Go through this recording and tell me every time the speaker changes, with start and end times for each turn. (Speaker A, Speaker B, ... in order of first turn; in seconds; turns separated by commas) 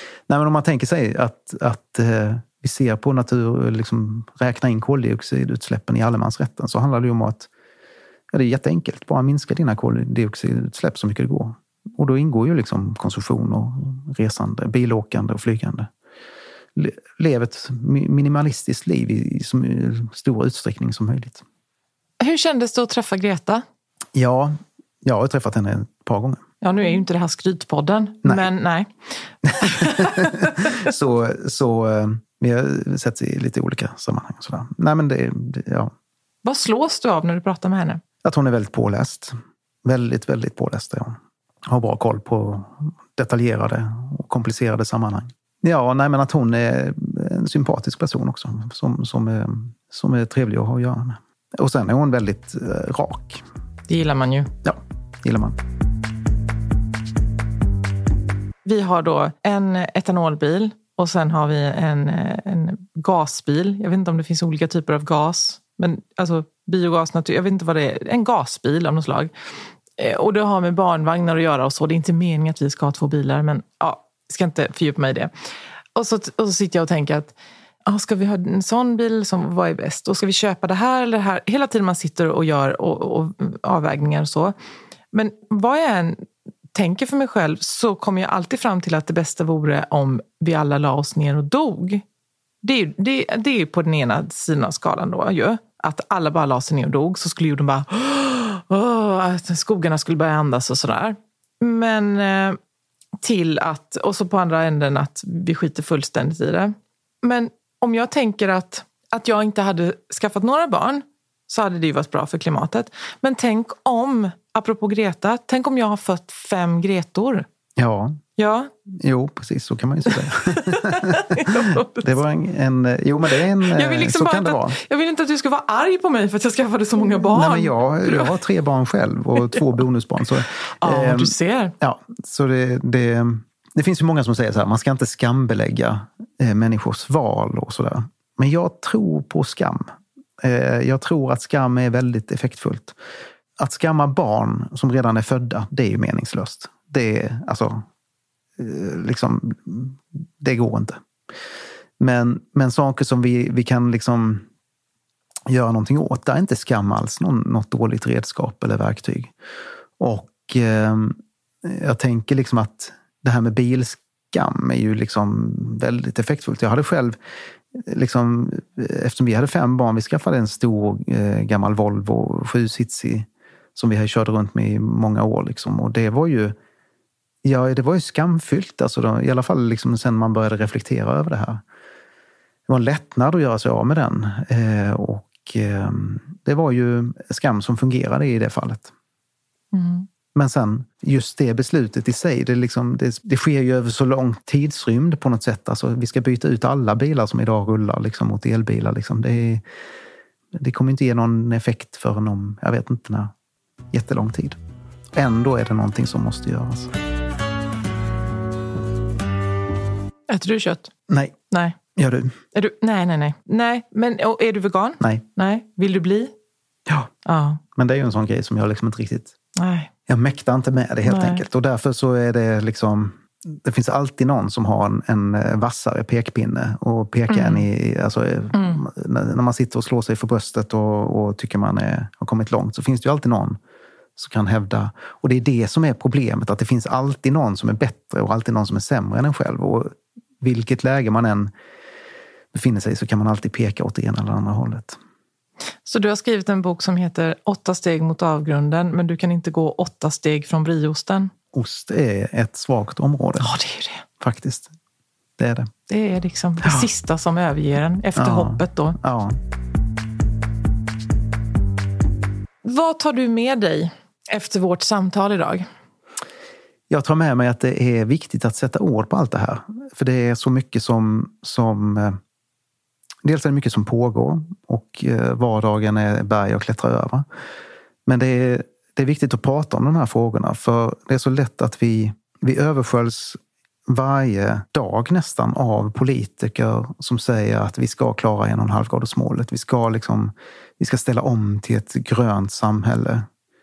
Speaker A: 0.3-7.5, Speaker A: 8.3-15.9, Speaker A: 16.8-21.4, Speaker B: 22.2-23.6, Speaker A: 24.1-26.4, Speaker B: 26.6-28.9, Speaker B: 29.4-30.8, Speaker A: 29.6-35.9, Speaker B: 36.4-38.0, Speaker A: 38.2-53.4, Speaker B: 53.9-54.5, Speaker A: 54.6-55.6, Speaker B: 58.6-69.3, Speaker B: 70.0-75.3, Speaker B: 75.9-77.3, Speaker B: 77.8-84.5, Speaker B: 85.1-92.0, Speaker B: 92.6-102.6, Speaker B: 103.2-117.5, Speaker A: 117.8-118.2, Speaker B: 118.4-118.7, Speaker A: 118.9-124.8, Speaker B: 120.2-122.2, Speaker B: 123.6-128.3, Speaker A: 127.3-143.0, Speaker B: 130.7-131.7, Speaker A: 143.6-147.8, Speaker A: 148.6-151.0, Speaker A: 152.0-154.4, Speaker A: 155.5-159.3, Speaker A: 160.0-167.2, Speaker A: 167.7-176.6, Speaker A: 177.4-181.6, Speaker A: 182.7-188.9, Speaker B: 189.7-190.1, Speaker A: 190.3-199.6, Speaker A: 200.5-203.3, Speaker A: 203.9-204.6, Speaker A: 205.1-206.9, Speaker B: 210.3-210.9, Speaker A: 211.1-211.3, Speaker B: 211.5-211.8, Speaker A: 211.9-212.3, Speaker B: 212.5-216.3, Speaker B: 217.2-217.6, Speaker A: 217.7-219.3, Speaker B: 219.6-219.9, Speaker A: 220.1-233.6, Speaker B: 221.0-221.4, Speaker B: 227.3-227.7, Speaker B: 228.5-228.8, Speaker A: 234.2-241.5, Speaker A: 242.5-245.0, Speaker B: 245.8-251.3, Speaker A: 251.5-253.6, Speaker B: 253.4-254.0, Speaker A: 254.2-254.7, Speaker A: 255.4-255.7, Speaker B: 255.9-259.0, Speaker A: 256.6-256.9, Speaker A: 258.1-259.4, Speaker B: 262.6-265.7, Speaker A: 266.9-272.2, Speaker A: 273.2-277.2, Speaker A: 278.1-293.3